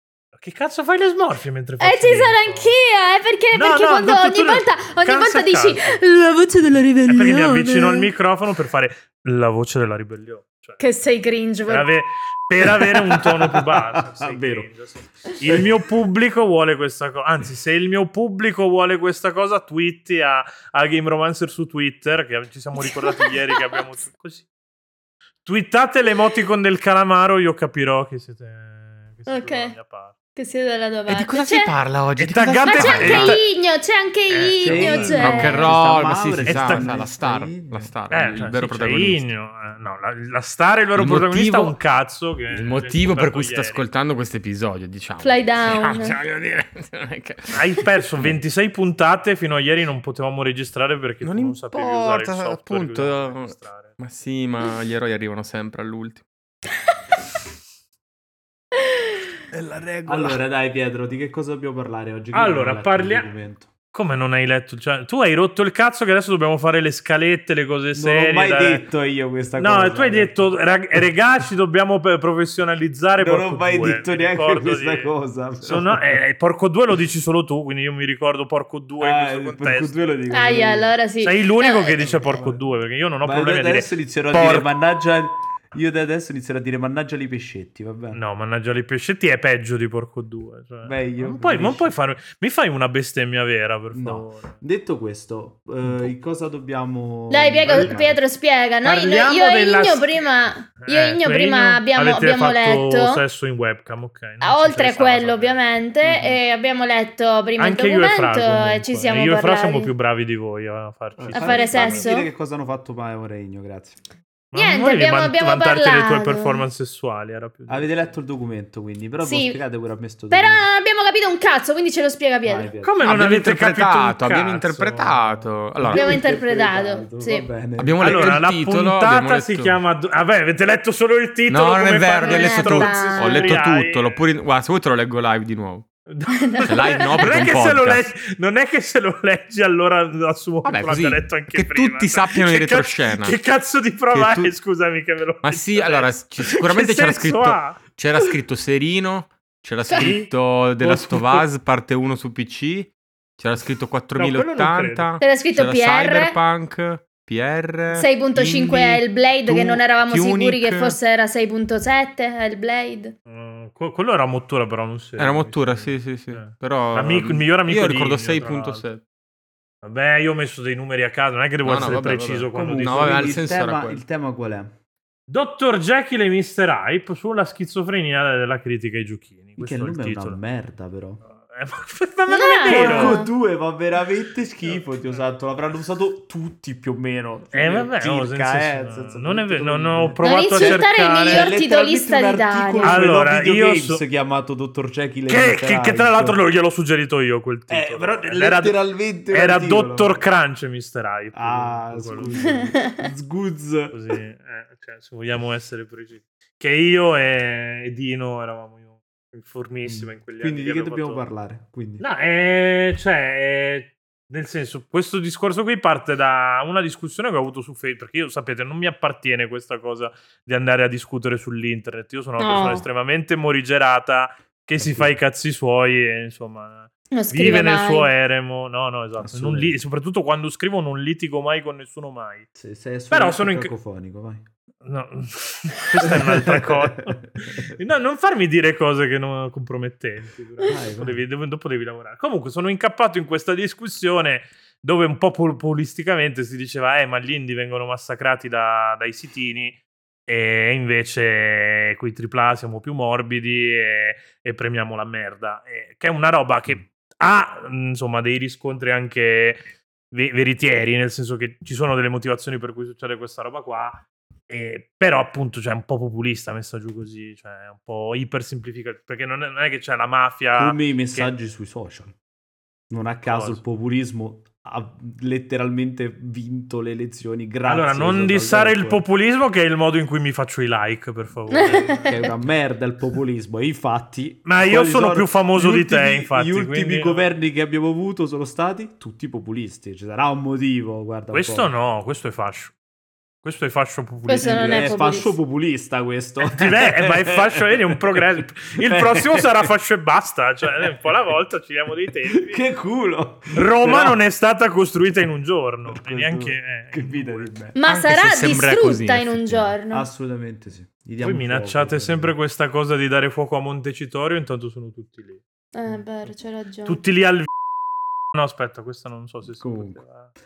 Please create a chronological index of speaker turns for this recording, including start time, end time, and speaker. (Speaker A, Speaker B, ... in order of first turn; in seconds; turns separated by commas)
Speaker A: 0.3-2.7, Speaker B: 1.8-8.1, Speaker A: 3.5-6.0, Speaker A: 7.1-10.8, Speaker B: 10.8-11.9, Speaker A: 11.7-24.5, Speaker C: 13.0-14.7, Speaker B: 22.9-23.8, Speaker A: 25.4-30.1, Speaker B: 29.3-29.8, Speaker B: 30.4-31.7, Speaker D: 31.1-33.4, Speaker A: 32.2-33.4, Speaker B: 32.7-35.7, Speaker A: 34.3-35.4, Speaker C: 34.6-37.9, Speaker D: 35.1-39.2, Speaker A: 36.5-37.0, Speaker A: 38.1-43.9, Speaker D: 41.0-41.8, Speaker D: 42.5-48.4, Speaker B: 45.2-46.2, Speaker A: 47.5-54.0, Speaker D: 51.2-56.2, Speaker D: 59.5-60.4, Speaker C: 60.1-63.7, Speaker A: 62.3-63.3, Speaker A: 63.9-68.8, Speaker C: 68.0-71.0, Speaker A: 69.6-80.0, Speaker C: 73.2-76.2, Speaker C: 79.0-80.9, Speaker B: 80.3-82.1, Speaker A: 81.2-84.7, Speaker C: 82.0-82.6, Speaker C: 83.2-88.2, Speaker A: 88.1-94.5, Speaker C: 90.8-91.9, Speaker C: 93.9-98.2, Speaker A: 95.8-96.1, Speaker B: 97.3-103.2, Speaker A: 97.6-98.0, Speaker A: 98.8-100.2, Speaker A: 100.8-106.4, Speaker B: 104.4-109.9, Speaker A: 107.6-112.1, Speaker C: 111.2-114.0, Speaker B: 111.3-112.3, Speaker A: 114.5-118.2, Speaker B: 114.5-116.7, Speaker C: 117.7-120.7, Speaker B: 119.2-119.6, Speaker B: 120.3-122.7, Speaker C: 122.4-123.0, Speaker A: 122.8-125.5, Speaker D: 123.0-126.2, Speaker C: 125.8-128.4, Speaker B: 125.9-127.5, Speaker D: 127.8-129.8, Speaker A: 128.0-134.2, Speaker D: 131.5-135.8, Speaker B: 132.2-133.5, Speaker A: 136.1-147.8, Speaker B: 136.3-137.3, Speaker D: 136.7-138.1, Speaker D: 140.6-143.4, Speaker D: 144.1-144.5, Speaker D: 145.4-161.0, Speaker B: 149.9-150.2, Speaker A: 150.0-151.5, Speaker A: 154.2-155.1, Speaker B: 155.2-156.3, Speaker B: 157.9-163.1, Speaker A: 163.3-168.9, Speaker D: 165.2-169.0, Speaker A: 169.8-173.4, Speaker D: 171.6-174.0, Speaker C: 172.6-174.8, Speaker A: 175.3-180.4, Speaker C: 179.6-181.2, Speaker A: 181.2-183.2, Speaker B: 182.3-183.3, Speaker C: 182.7-196.4, Speaker A: 184.7-185.2, Speaker A: 187.5-191.5, Speaker B: 190.2-193.0, Speaker A: 192.8-194.0, Speaker A: 195.3-198.8, Speaker C: 197.7-200.3, Speaker A: 199.3-202.6, Speaker C: 201.3-204.0, Speaker B: 202.4-203.0, Speaker A: 203.9-211.3, Speaker C: 209.9-212.1, Speaker A: 212.0-232.5, Speaker B: 222.4-222.9, Speaker C: 224.8-225.2, Speaker B: 227.1-228.1, Speaker C: 229.2-229.7, Speaker C: 232.6-234.5, Speaker A: 233.1-233.7, Speaker A: 234.8-271.3, Speaker C: 236.0-237.8, Speaker C: 240.7-241.2, Speaker C: 270.6-272.2, Speaker C: 272.9-279.1, Speaker A: 273.3-273.6, Speaker A: 277.7-282.2, Speaker B: 281.5-282.3, Speaker C: 282.1-291.7, Speaker A: 284.4-287.2, Speaker A: 291.3-292.7, Speaker A: 293.4-294.9, Speaker B: 294.3-295.4, Speaker C: 294.4-298.3, Speaker A: 296.4-302.6, Speaker C: 298.8-299.7, Speaker C: 302.3-304.2, Speaker A: 303.5-307.6, Speaker C: 305.9-307.8, Speaker B: 307.8-310.1, Speaker D: 307.9-309.8, Speaker C: 309.9-312.3, Speaker A: 311.2-315.4, Speaker B: 315.7-317.0, Speaker A: 316.9-317.5, Speaker A: 318.3-320.3, Speaker C: 319.6-320.0